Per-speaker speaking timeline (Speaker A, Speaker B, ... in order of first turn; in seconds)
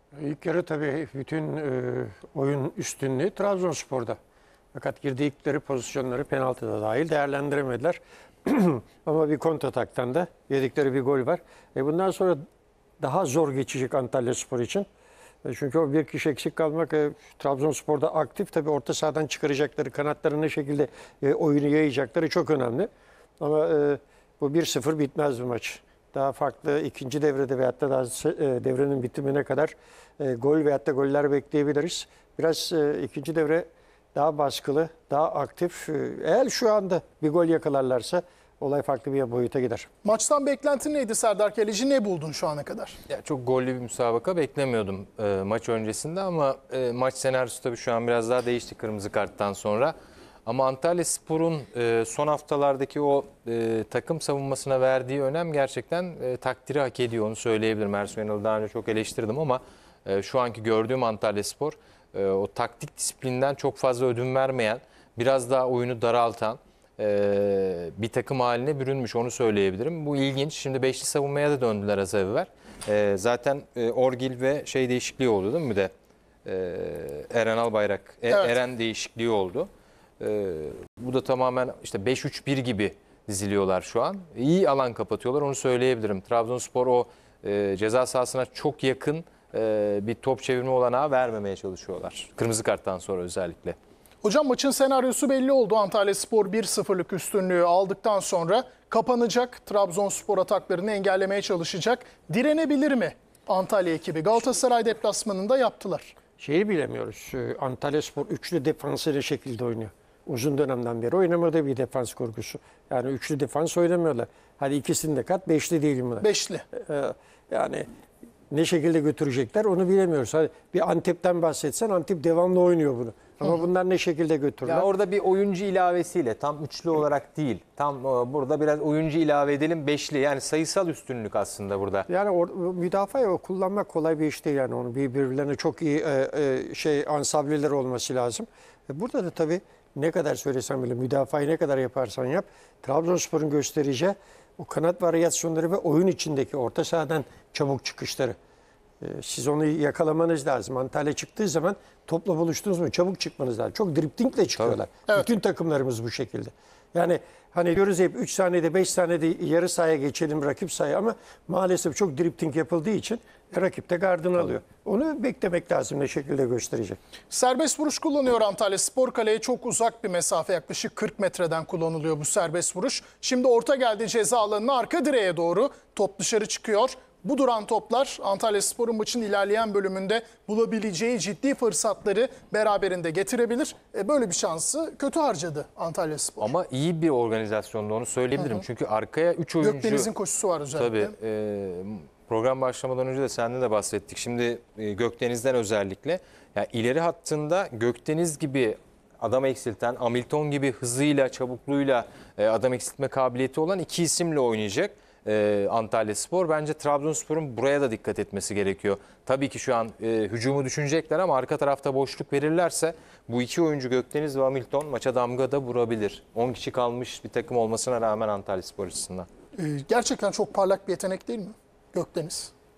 Speaker A: 0.1-4.2, 4.7-12.4, 13.0-14.9, 15.4-22.9, 23.4-39.9, 106.4-117.9, 118.5-124.9, 132.1-148.4, 149.0-167.0
Speaker B: 40.0-43.0, 94.2-106.1, 116.2-116.6, 167.3-186.6, 188.4-188.6, 189.6-191.2, 219.6-222.5
Speaker C: 43.1-49.9, 50.5-75.9, 76.5-79.7, 80.2-93.8, 124.7-132.1, 186.4-190.1, 190.8-219.3